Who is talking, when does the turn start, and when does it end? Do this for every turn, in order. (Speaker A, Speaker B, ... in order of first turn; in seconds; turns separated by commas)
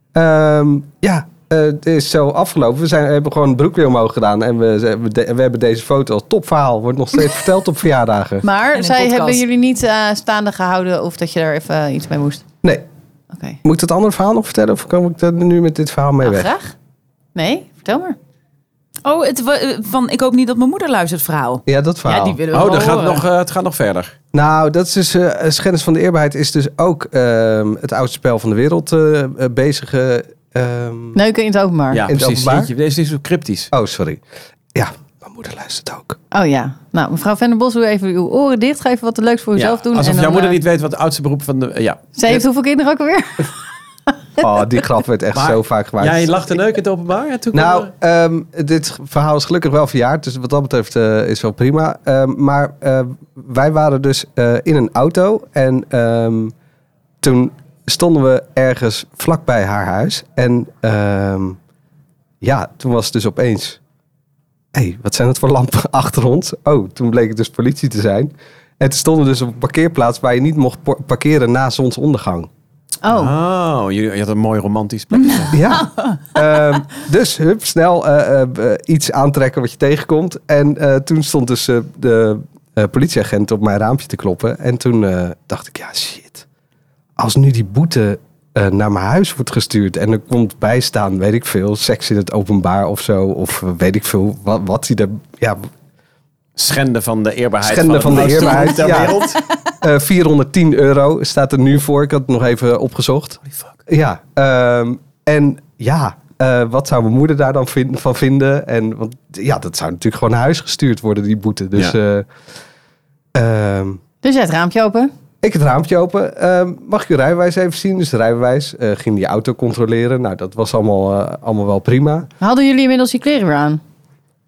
Speaker A: 0.1-8.5, Speaker B: 8.4-12.4, Speaker C: 8.7-9.4, Speaker B: 13.3-13.6, Speaker A: 13.6-16.5, Speaker B: 16.2-16.7, Speaker B: 17.4-18.2, Speaker C: 19.1-23.2, Speaker A: 21.7-22.4, Speaker D: 22.5-24.2, Speaker A: 24.3-31.2, Speaker B: 31.1-32.0, Speaker D: 31.9-33.7, Speaker A: 32.1-32.7, Speaker A: 33.7-34.2, Speaker A: 34.7-36.2, Speaker B: 36.3-40.6, Speaker D: 39.5-42.4, Speaker B: 42.2-43.5, Speaker B: 44.1-44.5, Speaker A: 44.4-46.5, Speaker D: 45.3-47.9, Speaker A: 47.5-56.5, Speaker A: 57.2-61.6, Speaker A: 62.4-63.8, Speaker A: 64.7-72.5, Speaker B: 73.0-73.3, Speaker D: 73.1-75.6, Speaker A: 75.5-86.5, Speaker A: 87.2-95.7, Speaker D: 96.6-99.4, Speaker A: 97.6-99.2, Speaker C: 98.3-99.1, Speaker A: 99.8-112.3, Speaker A: 113.3-114.0, Speaker B: 114.2-115.1, Speaker A: 115.4-122.3, Speaker B: 122.4-123.8